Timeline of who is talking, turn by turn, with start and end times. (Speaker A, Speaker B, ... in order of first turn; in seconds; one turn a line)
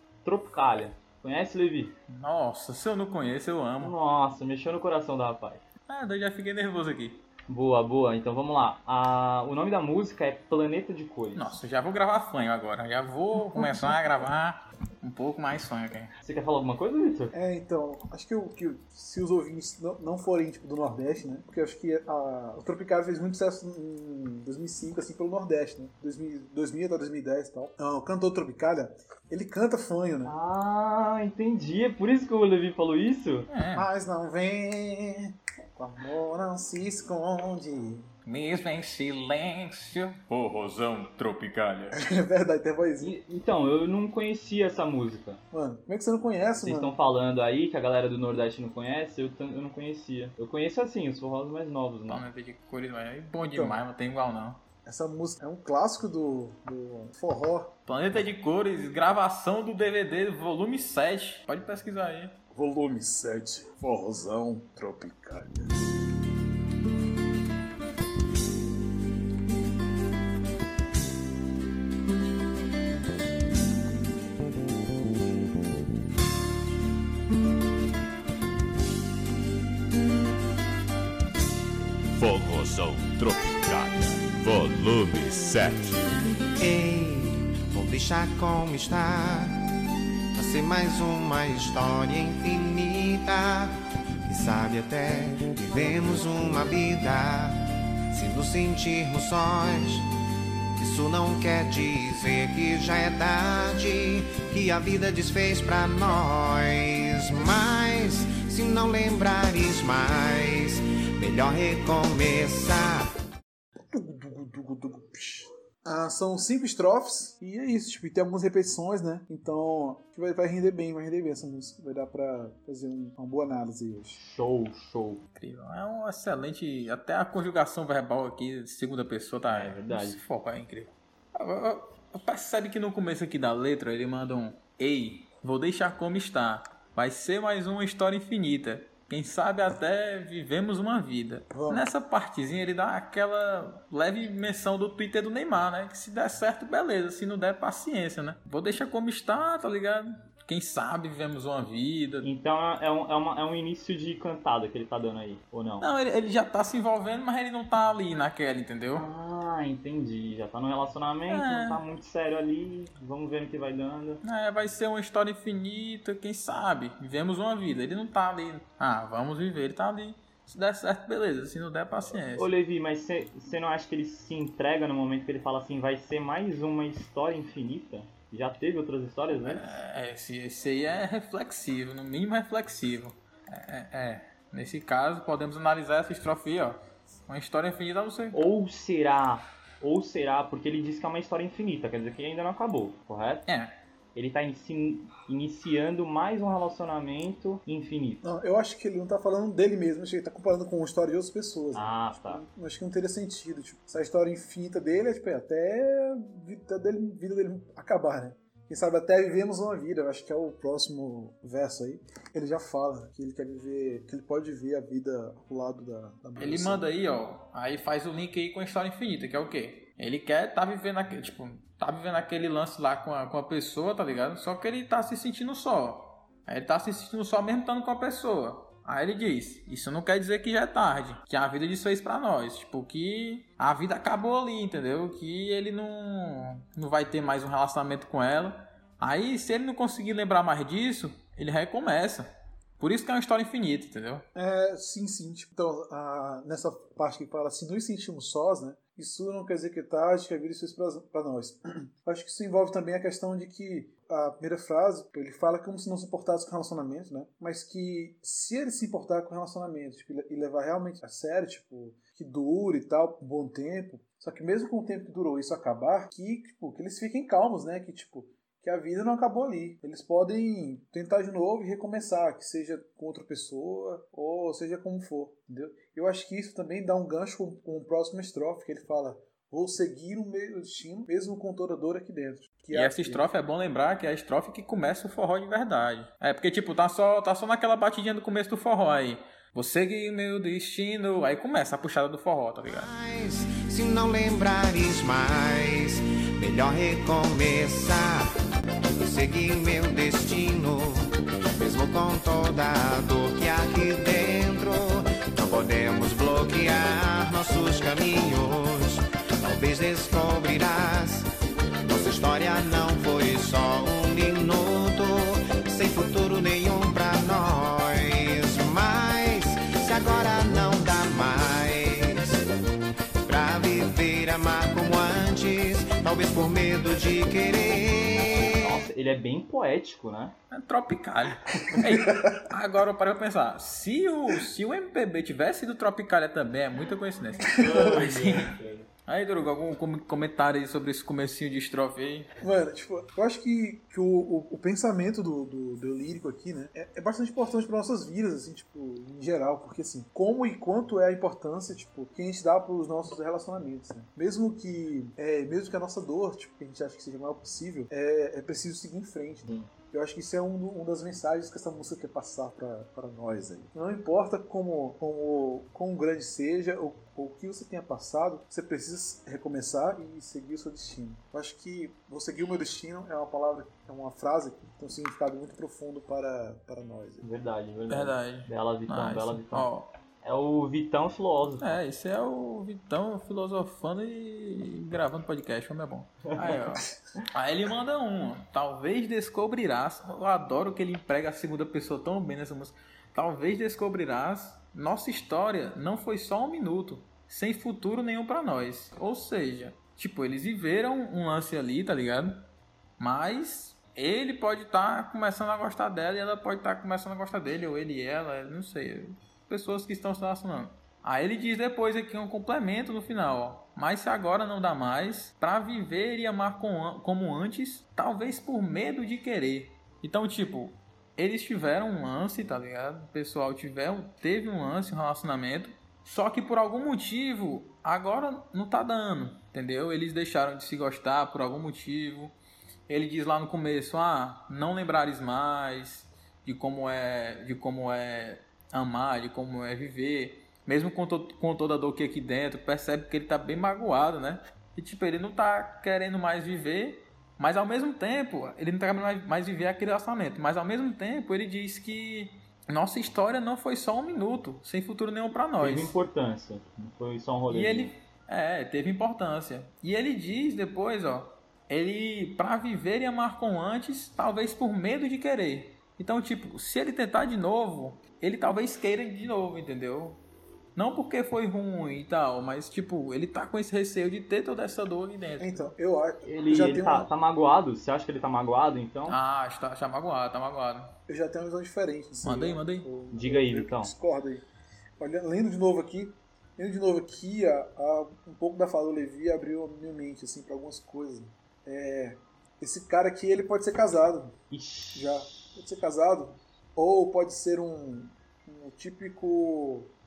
Speaker A: 0.2-1.9
Speaker B: 2.1-3.9
Speaker A: 3.8-5.6
Speaker B: 5.9-7.2
Speaker A: 7.5-11.5
Speaker B: 11.3-16.1
Speaker A: 16.2-17.3
Speaker C: 17.3-30.3
Speaker A: 30.2-33.5
Speaker B: 33.5-33.9
Speaker C: 33.7-38.1
Speaker B: 38.2-41.9
Speaker C: 41.9-43.1
Speaker A: 43.0-45.4
Speaker C: 45.5-46.9
Speaker A: 46.6-52.2
Speaker B: 52.1-54.6
Speaker C: 53.5-53.8
Speaker C: 54.8-57.8
Speaker B: 57.9-62.4
Speaker C: 62.5-65.7
Speaker D: 82.1-86.0
Speaker E: 86.6-89.6
Speaker E: 90.3-100.1
Speaker E: 100.8-113.1
Speaker C: 113.9-124.2
Speaker A: 124.2-125.2
Speaker B: 125.3-152.3
Speaker A: 129.5-130.2
Speaker C: 141.5-141.9
Speaker A: 152.2-155.8
Speaker B: 155.8-159.1
Speaker A: 158.9-164.2
Speaker B: 161.3-161.8
Speaker B: 164.2-172.5
Speaker A: 172.3-179.8
Speaker B: 179.3-188.4
Speaker A: 188.3-193.4
Speaker B: 193.5-193.7
Speaker A: 194.1-198.2
Speaker C: 198.2-216.8
Speaker A: 201.7-202.4
Speaker B: 216.4-242.3
Speaker B: 242.8-244.2
Speaker C: 244.3-283.2
Speaker B: 282.7-292.9
Speaker E: 292.6-298.3
Speaker E: 299.0-311.3
Speaker E: 311.8-322.4
Speaker E: 323.2-328.8
Speaker A: 328.3-330.4
Speaker B: 330.5-338.5
Speaker C: 331.7-332.3
Speaker A: 337.6-338.9
Speaker B: 339.1-342.3
Speaker C: 342.4-377.2
Speaker A: 377.2-379.7
Speaker B: 377.9-379.9
Speaker A: 380.2-381.8
Speaker B: 381.6-402.5
Speaker B: 403.0-432.3
Speaker B: 432.9-456.0
Speaker A: 455.6-457.9
Speaker B: 457.5-470.2
Speaker B: 470.8-475.7
Speaker C: 475.4-477.1
Speaker A: 476.2-479.2
Speaker B: 479.1-480.9
Speaker C: 481.1-484.4
Speaker B: 482.2-482.9
Speaker A: 483.1-483.9
Speaker C: 485.0-494.4
Speaker A: 494.5-495.2
Speaker C: 494.9-499.9